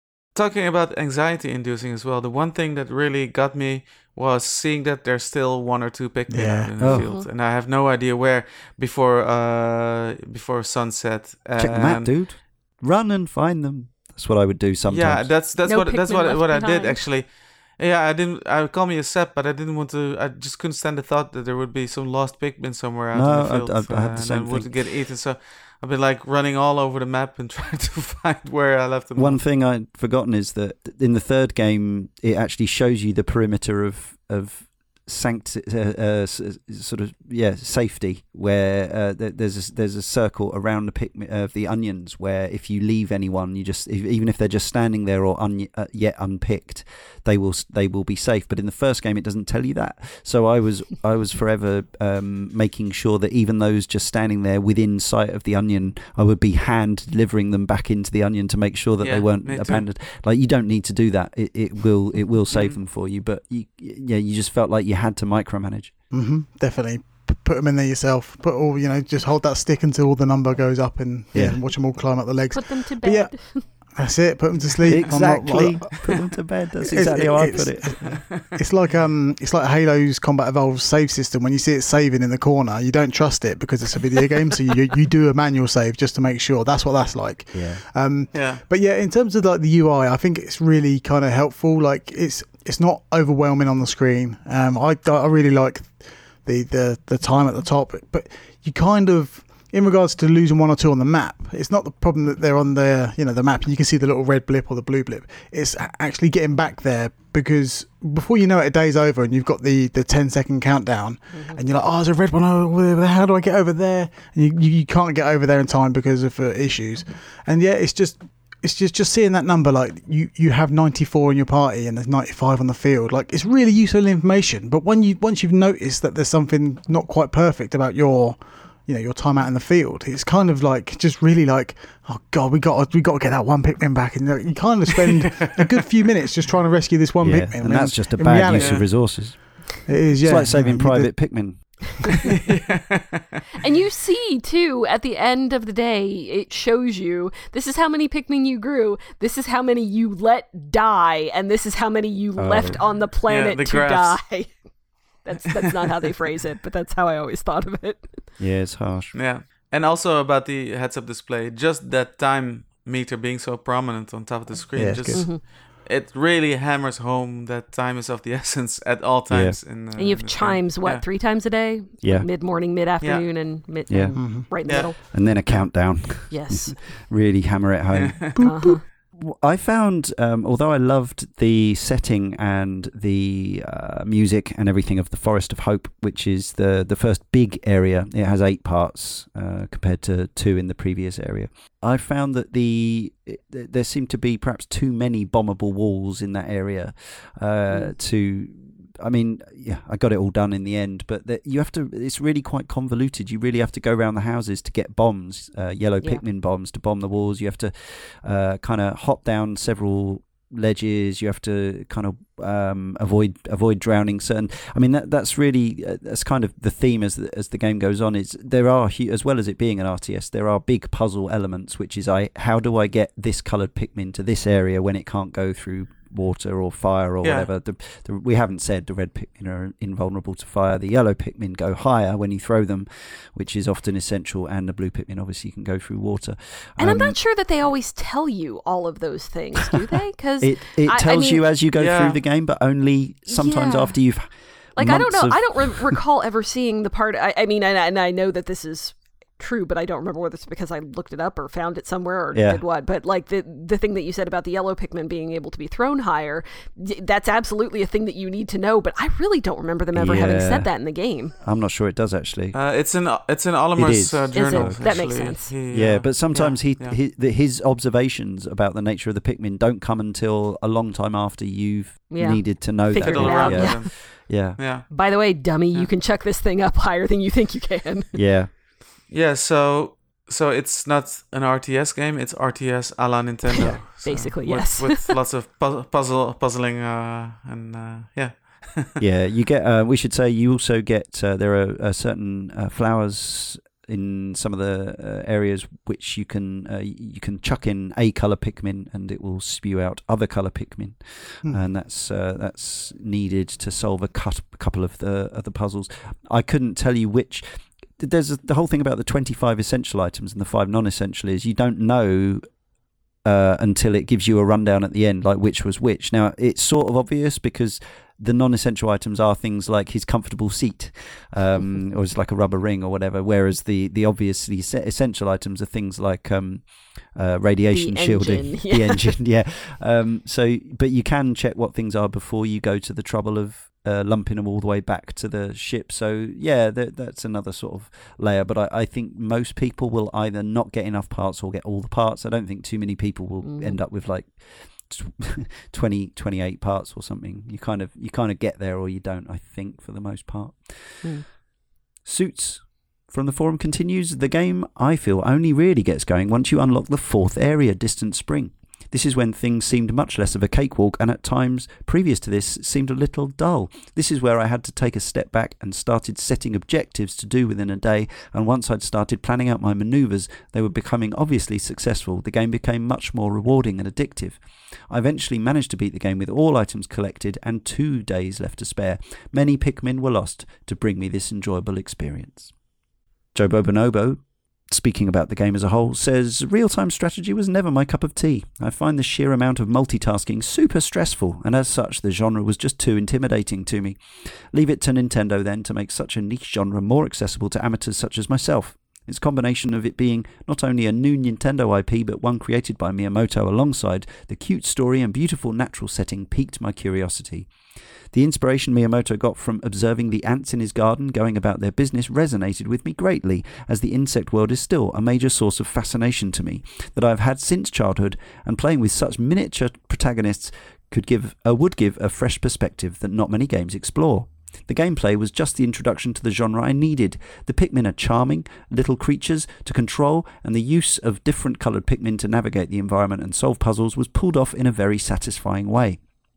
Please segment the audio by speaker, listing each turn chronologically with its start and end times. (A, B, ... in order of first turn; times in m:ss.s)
0:00.3-0:12.1 A
0:06.3-0:06.7 B
0:06.8-0:07.1 C
0:06.9-0:07.3 D
0:11.6-0:15.3 C
0:14.9-0:29.4 A
0:15.6-0:17.1 D
0:23.1-0:24.8 C
0:29.2-1:05.9 C
0:59.0-0:59.8 A
1:02.5-1:02.8 A
1:06.1-1:16.2 B
1:11.3-1:11.6 C
1:12.5-1:13.6 D
1:14.9-1:18.2 C
1:14.9-1:15.2 A
1:15.9-1:16.2 A
1:16.9-2:19.0 B
1:17.0-1:18.6 A
1:27.5-1:27.8 C
1:28.3-1:28.6 A
1:51.3-1:51.6 D
2:17.2-2:22.1 C
2:18.5-2:18.9 A
2:19.9-2:21.6 B
2:22.2-2:23.4 A
2:23.6-2:34.6 D
2:32.4-2:32.8 C
2:33.2-2:34.2 A
2:35.2-2:38.3 D
2:38.4-2:39.2 C
2:39.1-2:51.0 A
2:44.7-2:45.3 B
2:45.1-2:45.4 D
2:49.3-2:49.6 C
2:50.0-2:55.0 D
2:52.0-2:52.3 C
2:53.9-2:58.4 C
2:54.2-2:54.5 B
2:54.6-2:55.7 A
2:56.3-2:56.9 D
2:57.9-2:58.4 A
2:58.4-2:58.8 B
2:58.4-2:58.8 D
2:59.2-3:57.2 C
3:17.7-3:17.9 D
3:47.2-3:47.5 A
3:56.8-4:01.4 D
4:00.4-4:06.0 C
4:01.7-4:02.2 A
4:03.3-4:04.0 D
4:04.8-4:21.3 D
4:12.3-4:12.6 C
4:20.0-4:20.7 C
4:21.4-4:22.6 C
4:22.5-4:27.0 A
4:23.8-4:34.6 C
4:24.3-4:25.5 D
4:32.1-4:33.9 D
4:33.0-4:35.0 A
4:34.9-4:38.2 D
4:35.5-4:35.9 A
4:38.1-4:38.5 C
4:39.1-4:49.0 A
4:43.5-4:45.2 D
4:49.0-5:12.4 C
5:13.2-5:51.1 C
5:27.7-5:29.2 D
5:43.4-5:43.8 D
5:52.0-6:22.5 C
6:23.4-6:47.5 C
6:48.1-7:16.0 C